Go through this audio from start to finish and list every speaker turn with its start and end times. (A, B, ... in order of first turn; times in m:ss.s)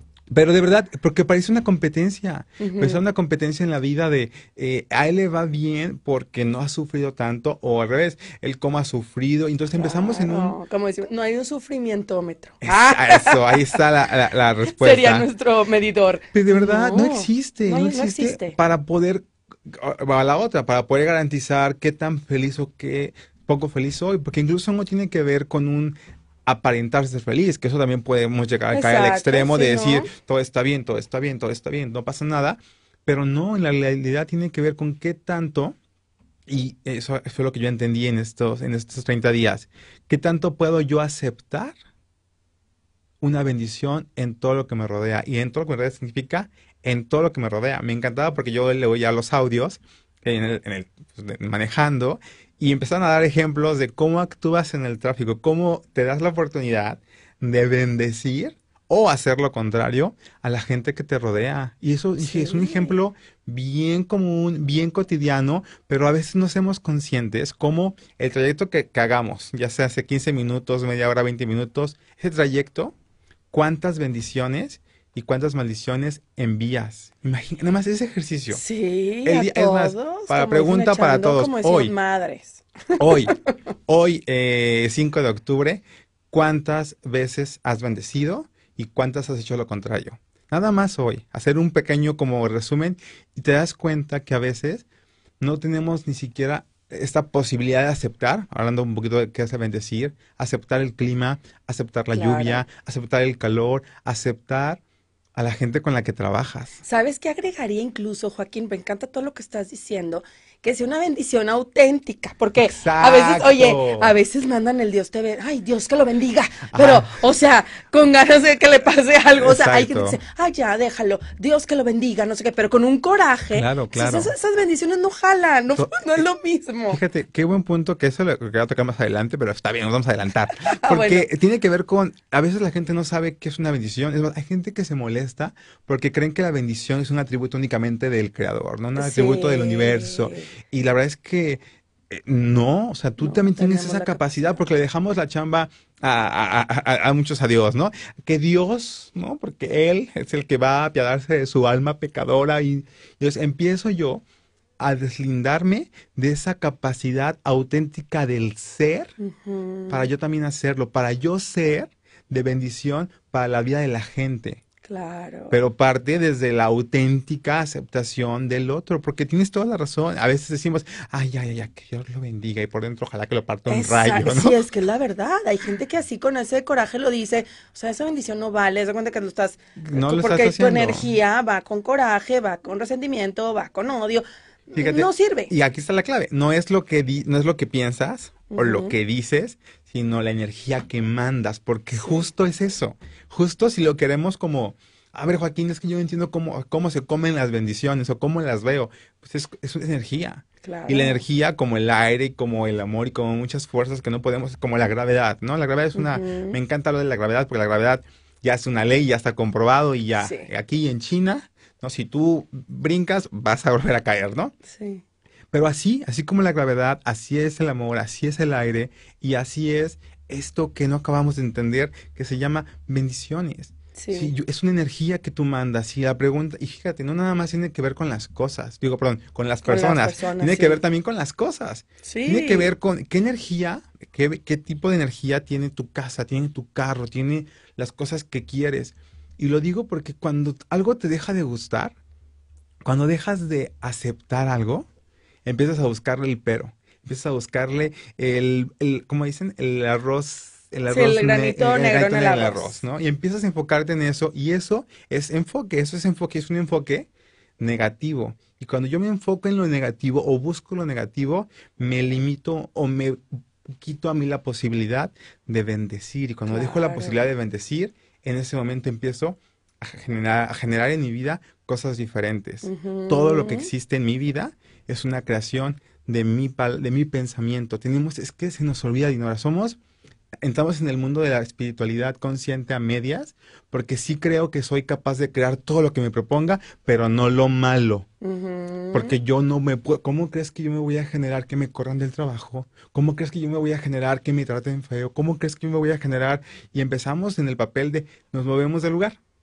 0:00.3-0:10.6 A
0:02.6-0:03.0 B
0:09.8-0:13.8 B
0:12.6-0:15.3 A
0:14.7-0:18.6 B
0:16.3-0:35.8 A
0:28.7-0:30.1 B
0:36.5-0:41.8 A
0:43.2-1:12.9 A
1:02.2-1:03.0 B
1:13.5-1:18.6 A
1:18.5-1:23.4 B
1:19.2-1:21.9 A
1:23.0-1:23.4 A
1:23.9-1:34.8 A
1:35.4-1:44.8 A
1:42.2-1:42.6 B
1:45.4-1:46.8 A
1:46.8-2:07.0 B
1:52.6-1:54.1 A
1:56.7-1:57.1 A
1:59.4-2:00.2 A
2:03.5-2:04.3 A
2:05.8-2:06.2 A
2:06.9-2:34.2 A
2:10.6-2:11.3 B
2:19.0-2:20.5 B
2:23.2-2:24.2 B
2:34.8-2:39.1 A
2:39.2-2:40.1 B
2:39.9-2:44.6 A
2:44.8-2:45.5 B
2:45.5-2:54.6 A
2:53.7-3:05.5 B
2:59.8-3:01.1 A
3:04.8-3:34.5 A
3:08.5-3:08.9 B
3:11.9-3:12.3 B
3:20.6-3:21.2 B
3:26.0-3:26.6 B
3:30.2-3:30.5 B
3:34.7-3:35.0 B
3:35.5-4:02.0 A
3:43.9-3:44.3 B
3:49.7-3:50.8 B
3:52.0-3:52.7 B
4:02.8-4:04.9 A
4:05.4-4:17.1 A
4:10.9-4:12.8 B
4:17.6-4:23.2 A
4:23.8-4:39.8 A
4:26.5-4:27.2 B
4:32.6-4:33.7 B
4:40.4-4:48.1 A
4:48.2-4:49.1 B
4:48.9-4:59.2 A